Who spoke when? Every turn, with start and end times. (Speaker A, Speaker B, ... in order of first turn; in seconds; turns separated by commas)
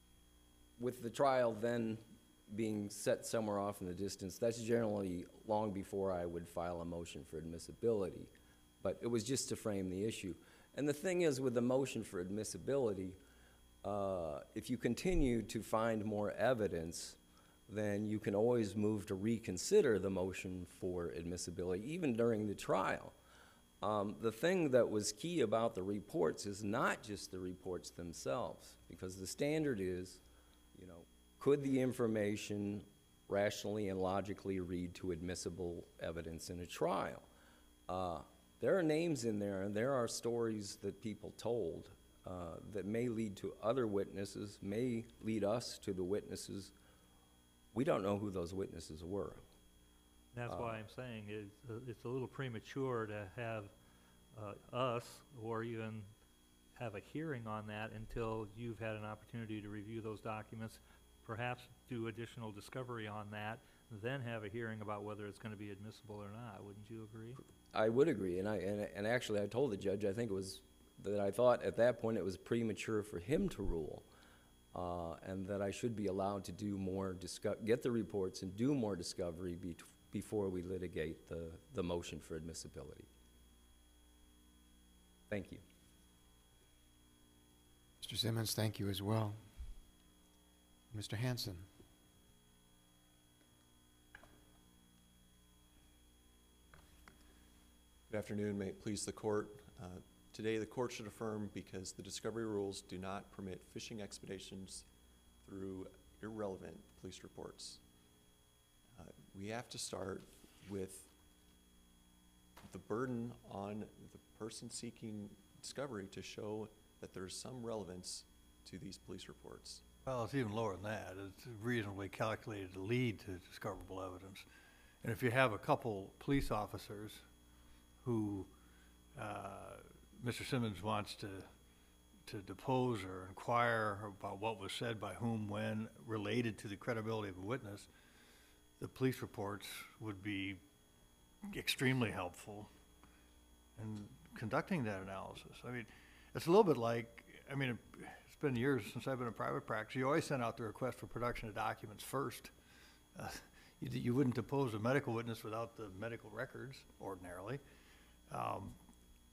Speaker A: 0.8-8.3, Speaker A: 8.8-13.2, Speaker A: 13.8-17.2, Speaker A: 17.7-23.1, Speaker A: 23.8-30.2, Speaker A: 30.8-37.3, Speaker A: 37.9-46.7, Speaker A: 47.7-49.4, Speaker B: 50.3-53.7, Speaker A: 50.5-50.8, Speaker B: 54.3-56.1, Speaker B: 56.8-67.4, Speaker A: 67.7-74.0, Speaker A: 74.7-83.1, Speaker A: 85.3-85.6, Speaker C: 88.0-89.4, Speaker C: 90.9-91.7, Speaker D: 98.1-104.8, Speaker D: 105.5-107.8, Speaker D: 109.0-111.1, Speaker D: 112.7-119.8, Speaker E: 120.1-124.5, Speaker E: 125.0-127.2, Speaker E: 128.0-128.5, Speaker E: 129.2-131.5, Speaker E: 132.3-137.9, Speaker E: 138.8-140.6, Speaker E: 141.5-142.7, Speaker E: 143.8-152.5, Speaker E: 153.2-157.6, Speaker E: 158.3-158.8